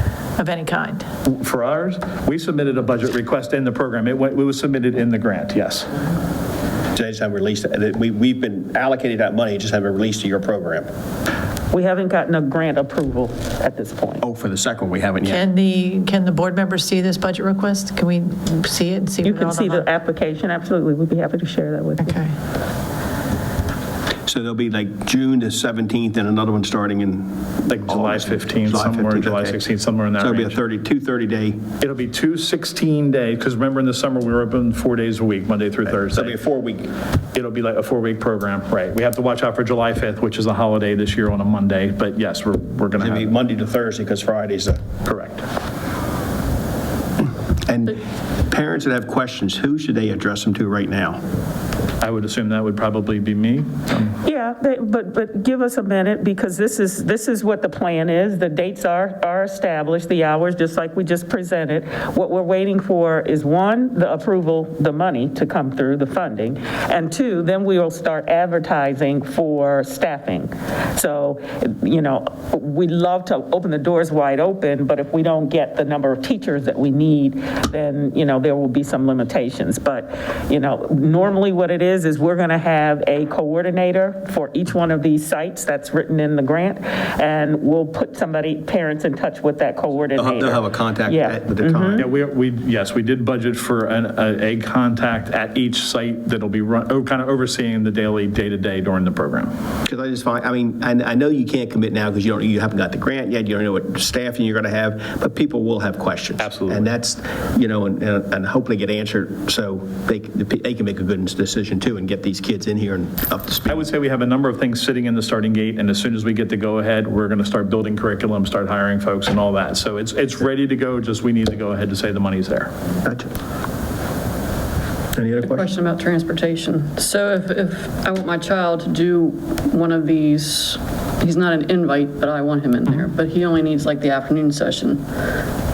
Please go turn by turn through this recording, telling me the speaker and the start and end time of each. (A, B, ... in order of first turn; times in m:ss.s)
0:00.4-0:01.0 A
0:01.2-0:05.9 B
0:06.9-0:10.9 C
0:11.7-0:14.2 D
0:14.2-0:15.4 C
0:15.2-0:19.8 A
0:19.2-0:22.2 D
0:22.0-0:22.3 A
0:24.3-0:29.6 C
0:27.7-0:30.6 B
0:30.2-0:31.6 C
0:31.8-0:36.4 B
0:35.9-0:36.9 C
0:37.3-0:43.3 B
0:43.0-0:44.8 C
0:45.0-0:45.4 B
0:47.6-0:51.2 C
0:52.0-0:54.2 B
0:54.2-1:32.0 D
1:30.1-1:32.0 C
1:32.0-1:39.5 B
1:39.8-1:53.8 C
1:46.4-1:46.9 B
1:53.6-2:02.7 B
2:05.1-2:05.7 C
2:05.4-2:15.0 E